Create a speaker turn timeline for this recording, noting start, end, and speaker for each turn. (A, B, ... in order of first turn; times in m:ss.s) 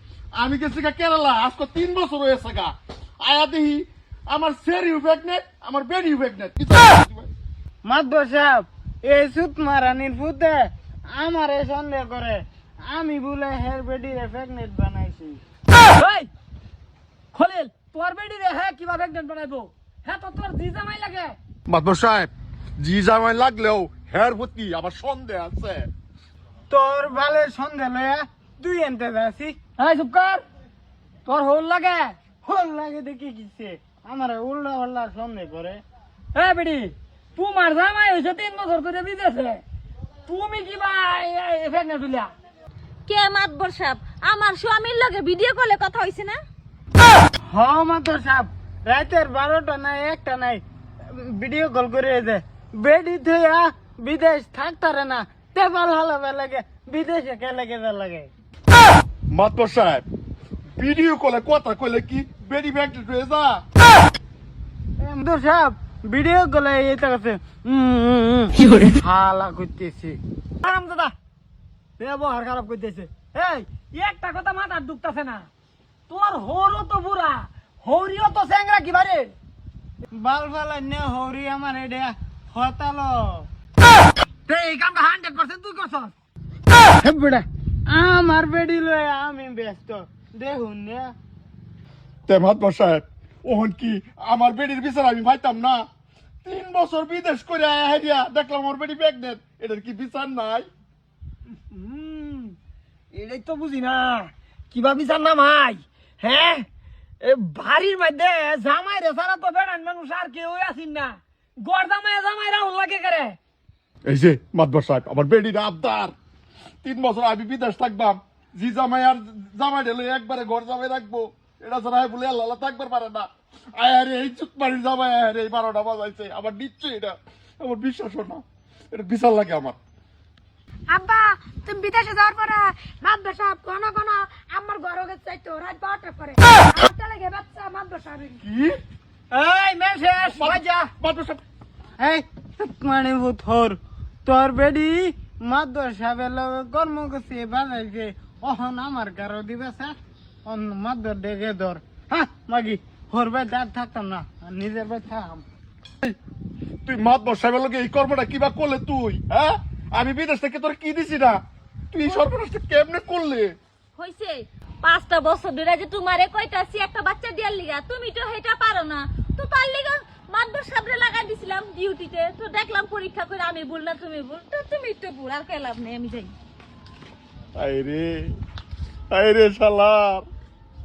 0:00.4-0:07.3 A
0:07.8-0:15.4 B
0:16.0-0:16.3 C
0:17.3-0:21.4 C
0:21.7-0:25.9 A
0:26.7-0:29.6 B
0:29.8-0:30.4 C
0:31.2-0:32.1 C
0:32.4-0:35.8 B
0:36.3-0:39.6 C
0:40.3-0:42.3 C
0:43.1-0:46.4 D
0:47.5-0:58.3 B
0:59.3-1:00.0 A
1:00.8-1:03.6 A
1:05.0-1:10.2 B
1:10.6-1:11.1 C
1:12.0-1:15.5 C
1:16.1-1:19.3 C
1:20.1-1:23.5 B
1:24.5-1:26.1 C
1:27.1-1:27.4 C
1:27.9-1:31.1 B
1:32.3-1:35.8 A
1:36.4-1:40.7 A
1:41.5-1:42.6 C
1:43.1-1:46.7 C
1:47.2-1:53.4 C
1:54.0-1:56.1 A
1:56.8-2:09.8 A
2:10.9-2:18.4 E
2:18.4-2:18.8 A
2:19.3-2:20.9 C
2:20.2-2:21.4 A
2:22.0-2:35.4 B
2:36.8-2:41.4 A
2:41.9-2:43.5 A
2:44.0-2:56.3 D
2:57.6-2:58.4 A
2:59.1-3:00.3 A